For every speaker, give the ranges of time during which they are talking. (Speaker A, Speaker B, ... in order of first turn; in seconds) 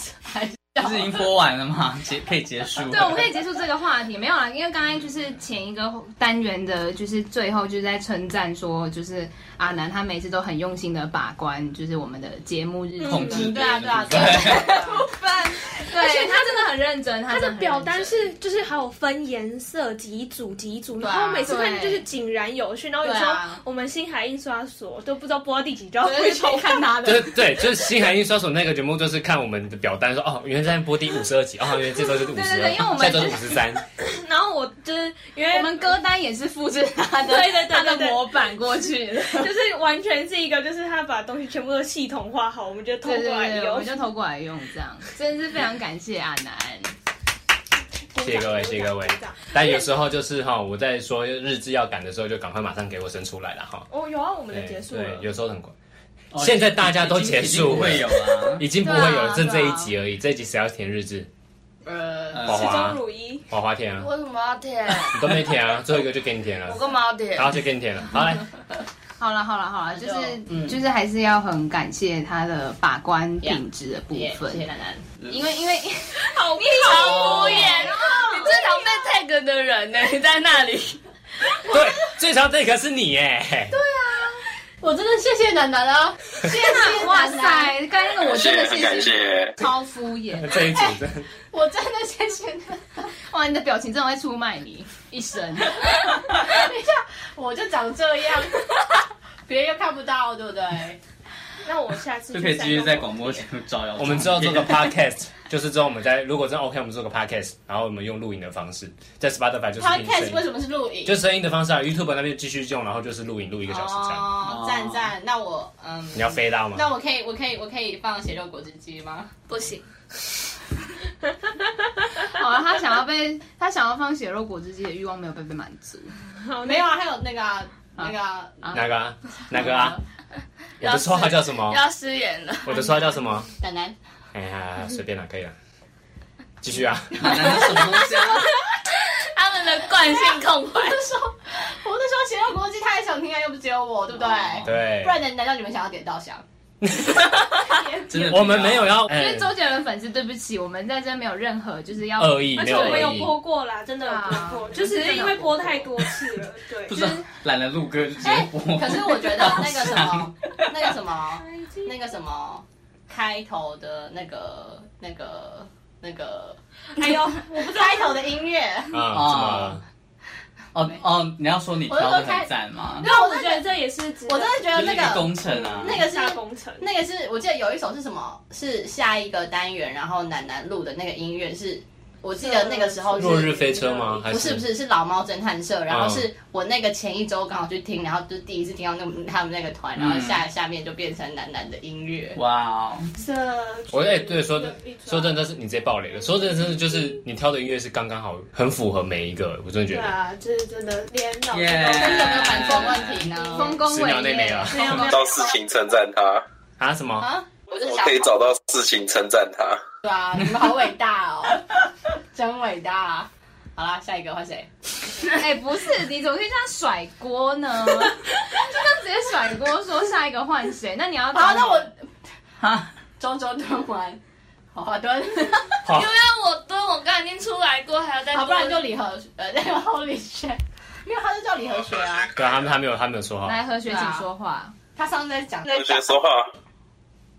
Speaker A: 0.1-1.1, 13.3-15.0, 21.0-21.6, 23.1-23.5, 61.9-62.5, 69.9-70.8, 73.4-75.0, 84.8-87.7, 91.5-93.1, 96.2-98.8, 99.5-101.0, 109.8-111.2, 113.7-119.3, 126.6-129.9, 133.6-134.0, 137.3-137.9, 140.0-146.4, 158.2-169.0, 171.9-173.7, 174.3-183.6, 184.3-192.4, 201.8-203.8, 207.2-208.1, 210.0-211.8, 212.3-214.7, 221.3-221.9, 223.2-224.2, 224.7-225.9, 228.3-232.3, 233.8-234.2, 234.9-236.1
Speaker B: 0.8-3.3, 13.0-14.7, 56.3-58.7, 62.3-62.7, 102.3-104.9, 114.4-115.1, 137.1-138.5, 148.1-149.0, 156.9-160.9, 169.1-169.8, 170.7-173.1, 174.7-176.0, 190.0-190.4, 192.3-193.1, 201.5-203.3, 222.6-222.9
Speaker C: 2.9-13.6, 15.8-18.3, 21.4-22.1, 23.1-23.3, 26.0-27.4, 32.3-33.6, 35.5-39.5, 43.0-46.9, 58.8-59.9, 69.2-74.6, 75.3-78.5, 86.6-90.6, 93.3-96.0, 122.3-126.1, 149.0-153.3, 154.1-155.8, 203.5-205.2, 215.3-221.9, 233.4-234.8
Speaker D: 14.8-16.7, 17.3-26.9, 34.1-36.0, 37.2-38.4, 39.3-44.1, 48.1-49.9, 53.9-55.3, 62.4-63.5, 101.7-103.4, 126.5-126.9, 148.0-148.3, 152.6-157.3, 161.4-161.9, 167.0-168.2, 173.0-176.9, 182.4-184.3, 193.2-195.4, 196.1-197.2, 199.9-203.7, 204.7-205.4
Speaker E: 27.0-33.8, 48.2-53.9, 54.5-55.7, 56.4-61.3, 62.5-64.1, 65.0-68.5, 81.7-83.8, 90.4-91.3, 104.0-110.5, 111.0-114.4, 116.1-116.9, 128.7-130.0, 130.8-131.8, 132.7-133.5, 134.3-135.5, 136.6-137.8, 144.6-145.2, 148.2-149.6, 152.2-153.3, 168.9-169.8, 183.2-184.7, 185.9-186.3, 193.9-200.2, 203.8-205.0, 206.8-207.3, 225.8-226.1, 232.4-233.6
Speaker F: 64.0-65.4, 66.7-67.6, 76.4-81.0, 119.5-119.8, 130.8-132.8, 139.3-141.0, 207.7-208.3, 225.9-228.9
Speaker G: 88.2-89.5, 204.9-206.4, 207.8-209.8, 235.7-236.5